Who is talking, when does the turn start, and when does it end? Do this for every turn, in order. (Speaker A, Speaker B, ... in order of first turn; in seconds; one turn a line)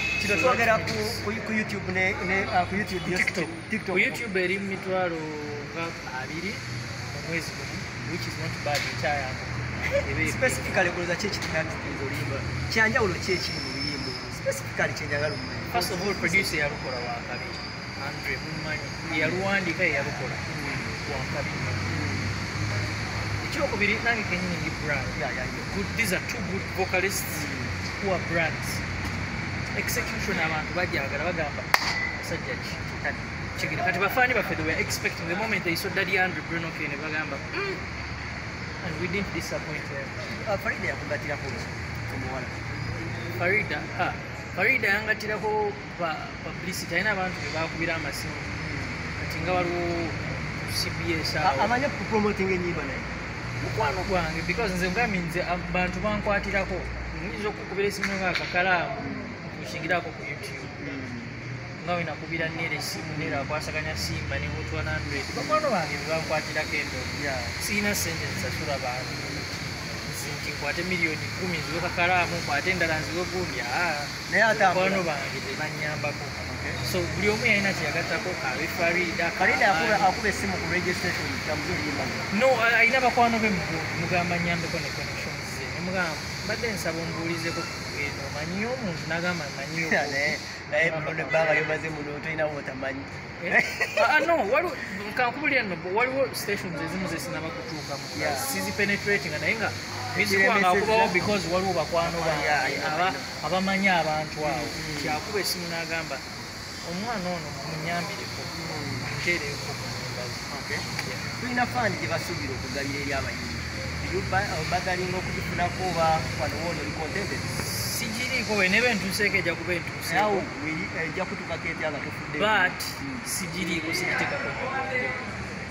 Speaker A: 0.2-4.2
Speaker B: 0.2-1.2
Speaker B: 3.0-10.9
Speaker A: 9.8-16.6
Speaker B: 15.7-22.0
Speaker A: 19.1-19.4
Speaker A: 20.5-20.9
Speaker A: 21.8-22.3
Speaker B: 23.4-28.8
Speaker A: 25.1-25.7
Speaker A: 27.3-27.7
Speaker B: 29.7-32.8
Speaker A: 32.9-33.4
Speaker B: 33.5-37.8
Speaker B: 38.8-40.1
Speaker A: 40.2-42.7
Speaker B: 43.4-48.5
Speaker A: 48.5-49.7
Speaker B: 49.2-51.7
Speaker A: 51.4-53.1
Speaker B: 53.6-60.7
Speaker A: 59.0-59.4
Speaker A: 60.8-61.4
Speaker B: 61.8-69.5
Speaker A: 63.0-63.5
Speaker A: 65.2-65.7
Speaker A: 67.1-67.6
Speaker B: 70.0-80.1
Speaker A: 74.3-75.1
Speaker A: 76.4-76.8
Speaker A: 79.4-82.3
Speaker B: 82.3-91.8
Speaker A: 89.8-94.3
Speaker B: 93.4-106.2
Speaker A: 98.1-98.5
Speaker A: 100.1-101.2
Speaker A: 102.0-103.3
Speaker A: 104.4-105.2
Speaker B: 106.8-111.2
Speaker A: 108.5-109.1
Speaker A: 110.5-110.9
Speaker A: 111.4-117.5
Speaker B: 117.5-120.5
Speaker A: 120.0-123.3
Speaker B: 122.3-125.2